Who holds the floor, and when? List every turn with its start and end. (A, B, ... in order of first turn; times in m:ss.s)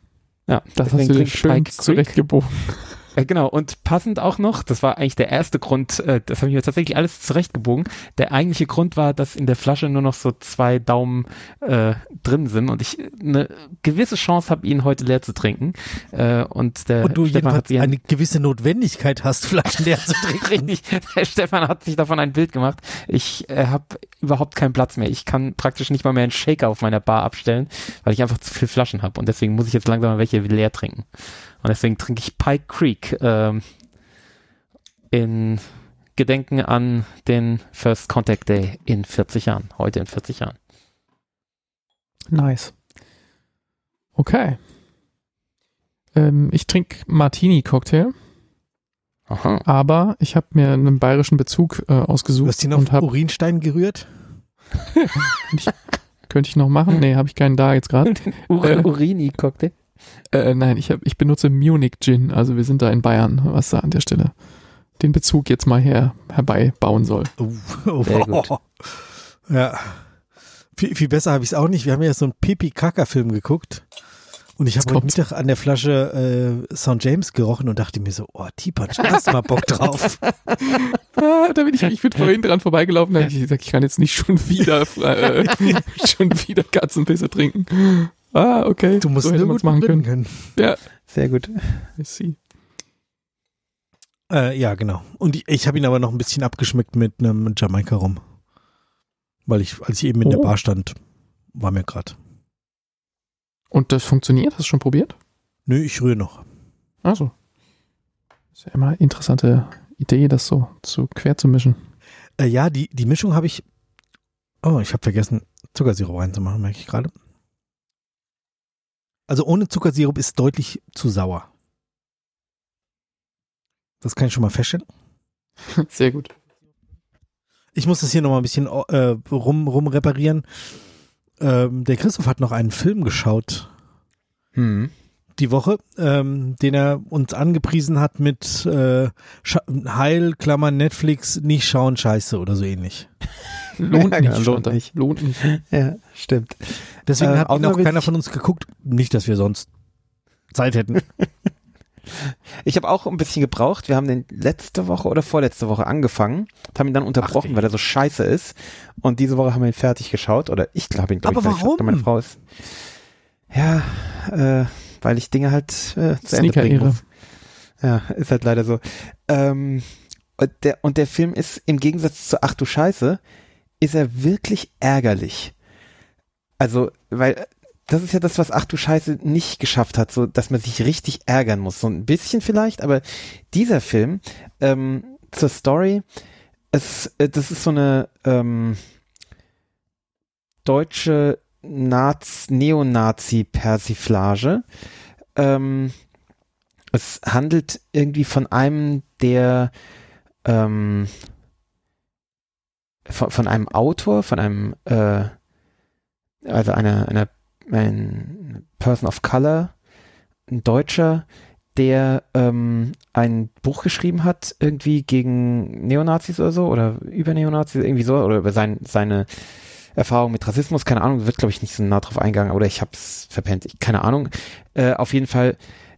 0:00.5-0:02.1 A
0:00.7-0:03.0 B
0:03.1-0:18.0 A
0:17.0-0:20.7 C
0:20.3-0:31.1 A
0:31.6-0:33.6 A
0:35.1-0:40.6 A
0:42.3-0:42.7 B
0:44.2-0:44.6 B
0:46.1-0:48.1 B
0:49.3-0:49.6 A
0:49.6-0:53.1 B
0:52.4-0:54.1 C
0:55.0-0:58.9 B
0:58.2-0:59.7 A
1:00.3-1:04.4 B
1:05.0-1:07.3 B
1:07.4-1:10.0 C
1:08.0-1:08.5 A
1:10.8-1:13.8 C
1:14.6-1:20.3 C
1:14.8-1:15.1 B
1:20.9-1:30.8 B
1:29.0-1:30.5 C
1:31.1-1:31.8 A
1:32.0-1:32.4 B
1:34.3-1:38.2 C
1:39.4-1:40.9 C
1:40.2-1:40.5 B
1:41.5-1:42.2 C
1:43.7-1:45.1 B
1:45.6-1:46.4 C
1:47.0-1:47.3 B
1:48.6-1:51.8 B
1:52.4-1:53.6 C
1:54.6-1:57.1 C
1:59.3-2:01.5 C
2:04.0-2:04.8 C
2:05.8-2:06.3 B
2:07.7-2:10.4 C
2:11.4-2:13.7 C
2:14.6-2:14.9 A
2:15.4-2:23.1 C
2:23.8-2:25.5 B
2:23.9-2:28.1 A
2:27.0-2:29.7 C
2:30.5-2:31.1 C
2:32.2-2:42.4 A
2:37.2-2:37.6 C
2:41.2-2:42.1 C
2:43.5-2:47.0 A
2:46.3-2:47.0 B
2:47.8-2:53.2 A
2:53.8-2:55.5 A
2:56.6-3:06.0 A
3:06.7-3:08.8 A
3:10.6-3:14.6 A
3:15.4-3:15.9 A
3:16.9-3:19.7 A
3:20.4-3:21.1 A
3:23.1-3:25.3 A
3:26.4-3:29.8 A
3:30.5-3:39.3 A
3:39.9-3:45.6 A